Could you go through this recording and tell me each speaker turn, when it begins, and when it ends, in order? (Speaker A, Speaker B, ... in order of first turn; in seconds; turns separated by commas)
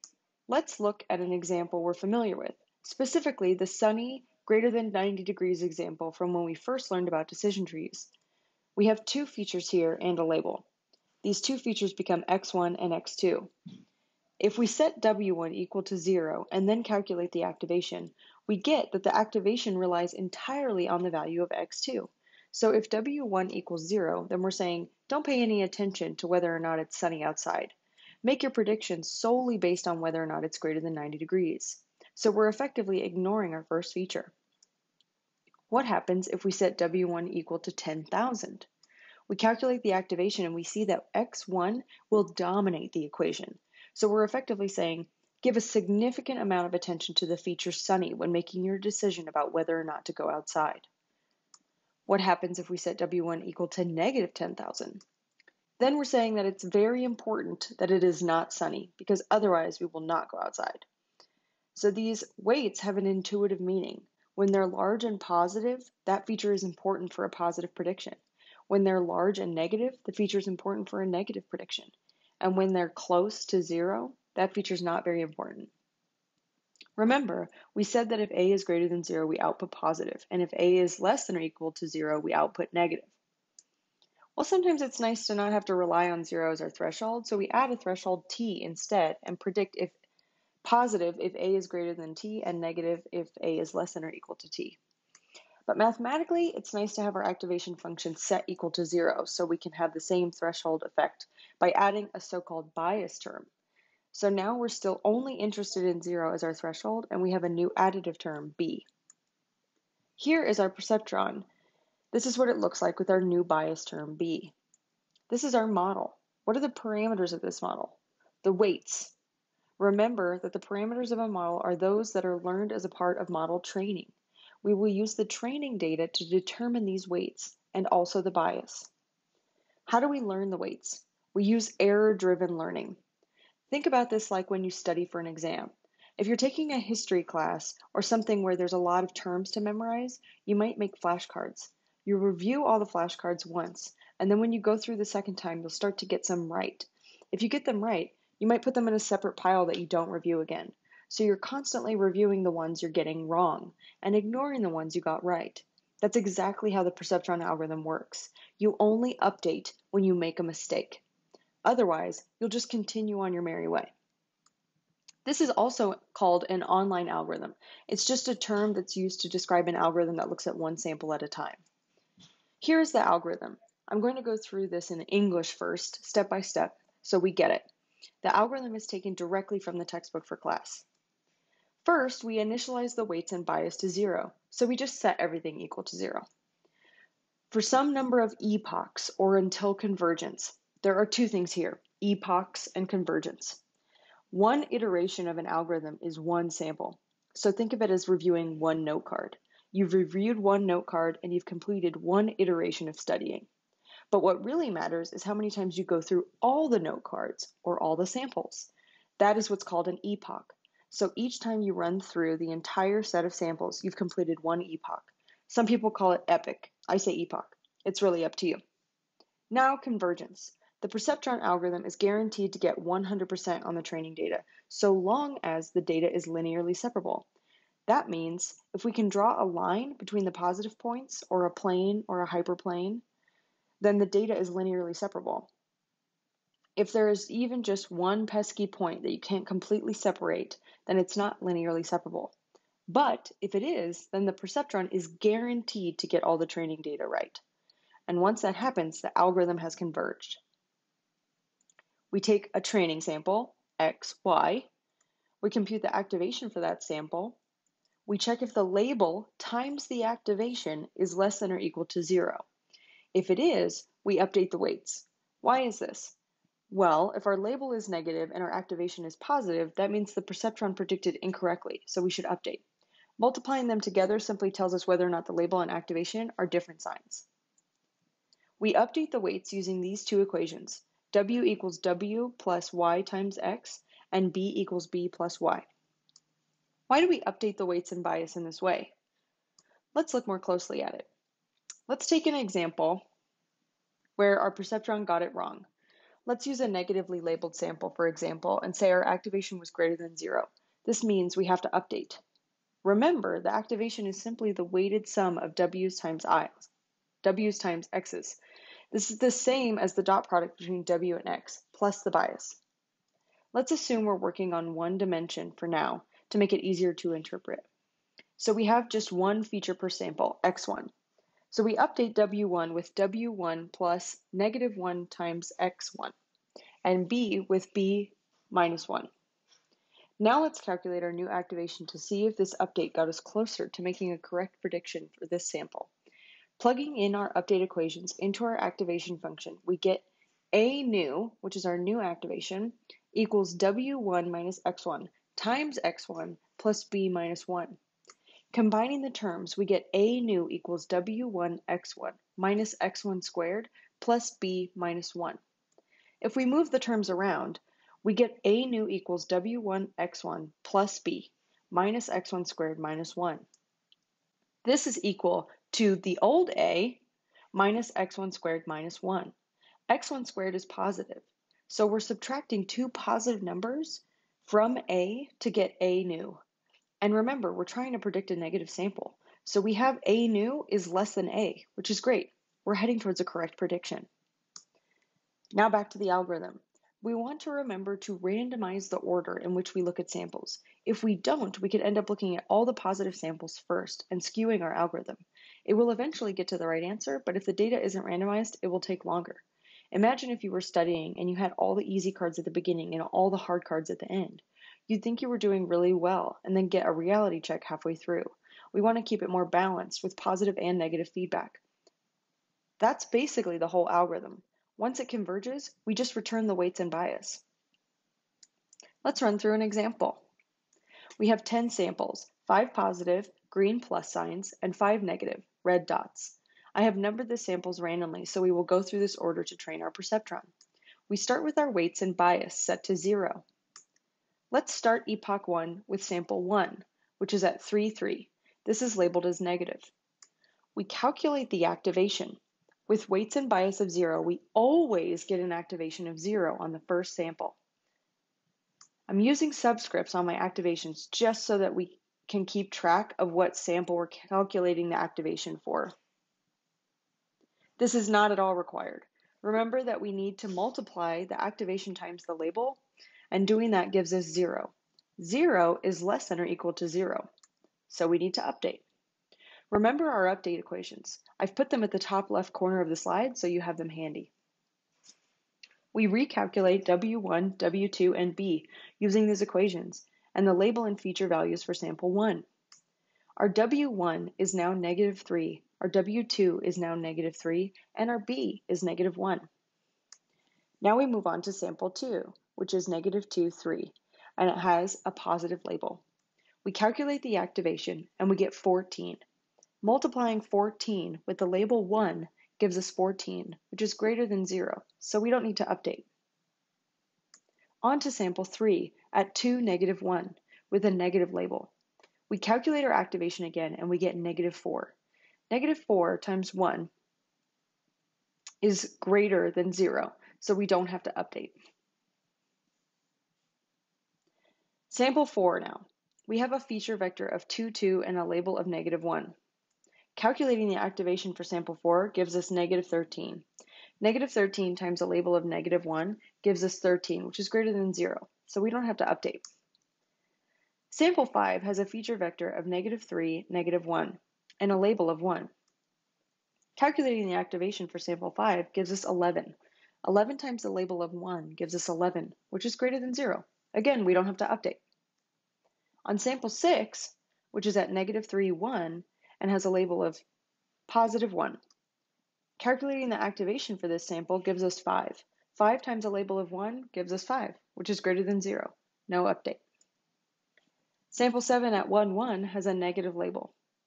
Speaker A: 0.5-8.1, Speaker A: 8.8-10.7, Speaker A: 11.2-13.5, Speaker A: 14.4-34.3, Speaker A: 35.7-38.7, Speaker A: 39.3-50.9, Speaker A: 52.1-55.0, Speaker A: 55.8-60.9, Speaker A: 61.7-68.2, Speaker A: 68.7-75.7, Speaker A: 77.0-83.1, Speaker A: 84.3-90.0, Speaker A: 90.6-94.8, Speaker A: 95.7-103.5, Speaker A: 104.1-108.9, Speaker A: 110.2-111.5, Speaker A: 112.1-114.5, Speaker A: 115.3-119.1, Speaker A: 119.8-124.1, Speaker A: 124.6-128.9, Speaker A: 129.9-133.0, Speaker A: 133.7-161.0, Speaker A: 161.6-163.9, Speaker A: 165.2-171.6, Speaker A: 172.6-177.7, Speaker A: 178.2-180.8, Speaker A: 181.8-186.2, Speaker A: 187.5-193.6, Speaker A: 194.3-203.5, Speaker A: 204.1-218.6, Speaker A: 219.5-227.3, Speaker A: 227.9-233.0, Speaker A: 233.8-235.5, Speaker A: 236.8-242.3, Speaker A: 242.9-247.4, Speaker A: 248.1-250.4, Speaker A: 252.1-254.7, Speaker A: 255.4-257.4, Speaker A: 258.1-262.4, Speaker A: 263.1-266.1, Speaker A: 266.7-272.6, Speaker A: 273.2-277.3, Speaker A: 278.6-285.7, Speaker A: 286.9-288.9, Speaker A: 289.9-291.1, Speaker A: 291.9-293.1, Speaker A: 294.2-295.7, Speaker A: 296.2-302.2, Speaker A: 302.8-306.7, Speaker A: 307.2-308.4, Speaker A: 308.9-312.6, Speaker A: 313.5-317.6, Speaker A: 318.4-320.9, Speaker A: 321.5-326.1, Speaker A: 326.9-329.1, Speaker A: 330.2-335.9, Speaker A: 336.6-347.8, Speaker A: 348.5-355.4, Speaker A: 356.2-363.4, Speaker A: 364.6-367.0, Speaker A: 367.5-369.3, Speaker A: 369.9-376.4, Speaker A: 377.0-384.1, Speaker A: 385.5-411.6, Speaker A: 412.8-417.4, Speaker A: 419.0-420.2, Speaker A: 421.2-430.5, Speaker A: 431.1-433.4, Speaker A: 434.5-439.9, Speaker A: 440.8-447.6, Speaker A: 449.1-455.9, Speaker A: 457.8-462.8, Speaker A: 463.3-467.3, Speaker A: 467.9-468.8, Speaker A: 469.7-474.3, Speaker A: 475.9-482.5, Speaker A: 483.4-489.5, Speaker A: 490.8-496.0, Speaker A: 496.6-499.2, Speaker A: 499.8-506.1, Speaker A: 507.8-511.7, Speaker A: 512.3-515.0, Speaker A: 515.5-516.9, Speaker A: 518.6-521.5, Speaker A: 524.9-529.4, Speaker A: 530.1-533.4, Speaker A: 534.0-539.4, Speaker A: 540.9-545.5, Speaker A: 546.8-554.8, Speaker A: 556.0-560.2, Speaker A: 560.9-561.6, Speaker A: 562.6-569.6, Speaker A: 571.1-573.5